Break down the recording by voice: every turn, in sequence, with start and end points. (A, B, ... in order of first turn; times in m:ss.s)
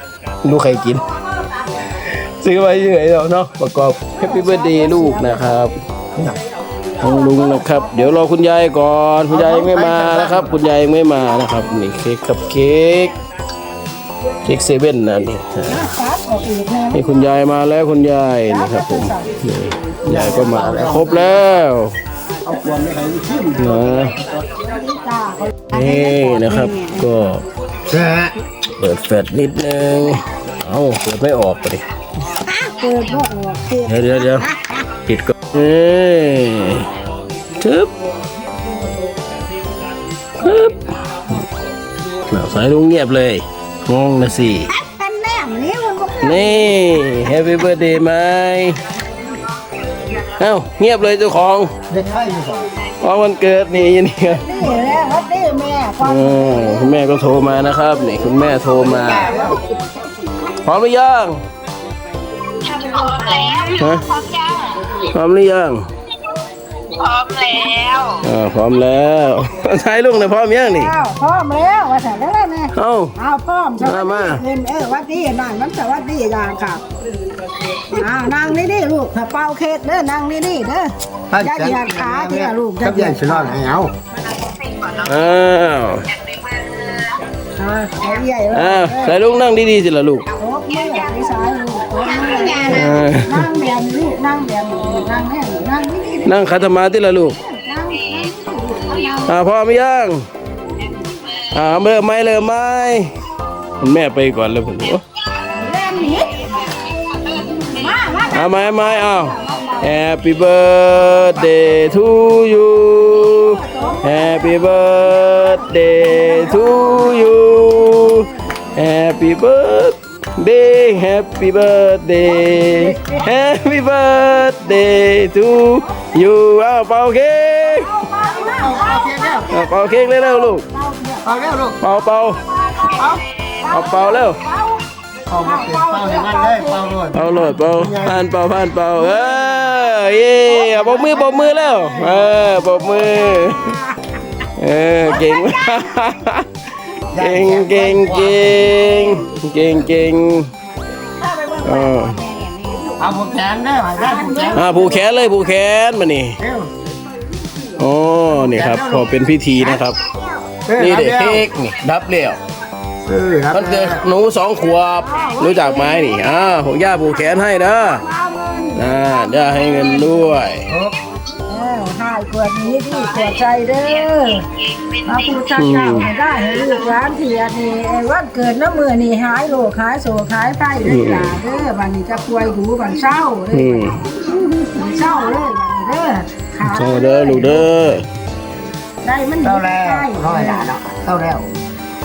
0:00.4-0:01.1 A
0:01.9-0:05.8 A
0:04.2-0:05.6 B
0:07.0-0:13.2 A
0:07.0-0:08.2 B
0:09.3-0:10.6 C
0:14.4-0:15.9 A
0:15.7-0:17.3 B
0:16.9-0:22.0 A
0:18.5-0:19.4 B
0:20.1-0:21.3 C
0:22.4-0:24.2 C
0:23.6-0:24.2 A
0:24.6-0:27.0 B
0:25.7-0:27.4 A
0:27.9-0:28.3 C
0:28.8-0:31.8 A
0:32.3-0:34.8 B
0:33.8-0:36.9 A
0:37.6-0:37.9 A
0:40.4-0:41.5 A
0:42.2-0:44.7 A
0:44.7-0:46.8 B
0:46.2-0:48.8 A
0:50.2-0:51.7 A
0:51.9-0:52.7 C
0:53.0-0:54.6 A
0:54.4-0:57.0 B
0:56.0-0:59.4 A
0:58.8-0:59.6 C
1:00.5-1:01.4 A
1:02.6-1:05.0 D
1:03.0-1:03.7 B
1:03.8-1:04.1 A
1:05.0-1:05.9 A
1:06.9-1:08.2 D
1:08.2-1:10.9 A
1:10.6-1:16.8 B
1:12.8-1:13.2 A
1:13.8-1:14.4 A
1:17.7-1:23.6 B
1:21.3-1:23.9 C
1:24.4-1:25.0 D
1:24.9-1:26.1 A
1:26.2-1:27.1 D
1:27.6-1:29.2 B
1:28.5-1:30.3 A
1:30.4-1:36.4 B
1:32.6-1:33.5 A
1:36.2-1:37.4 A
1:37.4-1:39.4 B
1:39.2-1:40.2 A
1:41.4-1:43.1 A
1:43.8-1:45.0 A
1:45.4-1:46.7 B
1:47.6-1:50.0 B
1:48.3-2:07.9 A
1:53.2-1:58.4 B
2:02.4-2:03.3 B
2:07.7-2:11.4 B
2:08.4-2:09.6 C
2:09.5-2:10.7 A
2:11.2-2:11.8 C
2:11.8-2:12.4 A
2:12.5-2:17.5 B
2:12.9-2:13.2 C
2:13.7-2:14.4 A
2:15.3-2:18.2 C
2:17.1-2:23.8 A
2:19.1-2:19.6 B
2:20.5-2:24.0 B
2:24.6-2:26.5 A
2:25.2-2:25.5 B
2:27.1-2:28.8 C
2:27.1-2:30.5 A
2:31.2-2:33.0 D
2:31.3-2:32.5 B
2:31.6-2:32.2 A
2:33.0-2:35.0 C
2:34.0-2:35.0 B
2:34.5-2:36.4 A
2:36.4-2:36.7 C
2:37.8-2:40.0 A
2:38.5-2:39.1 C
2:40.6-2:41.5 C
2:40.7-2:42.4 A
2:43.0-2:44.0 C
2:43.5-2:48.0 A
2:45.0-2:46.4 B
2:47.9-2:50.4 B
2:48.8-2:50.7 A
2:50.7-2:51.0 C
2:51.4-2:54.5 B
2:54.6-2:55.0 D
2:55.0-3:07.7 B
2:55.5-2:56.1 A
3:00.8-3:01.4 A
3:03.5-3:04.1 A
3:06.6-3:08.1 A
3:09.0-3:10.7 B
3:09.4-3:11.5 C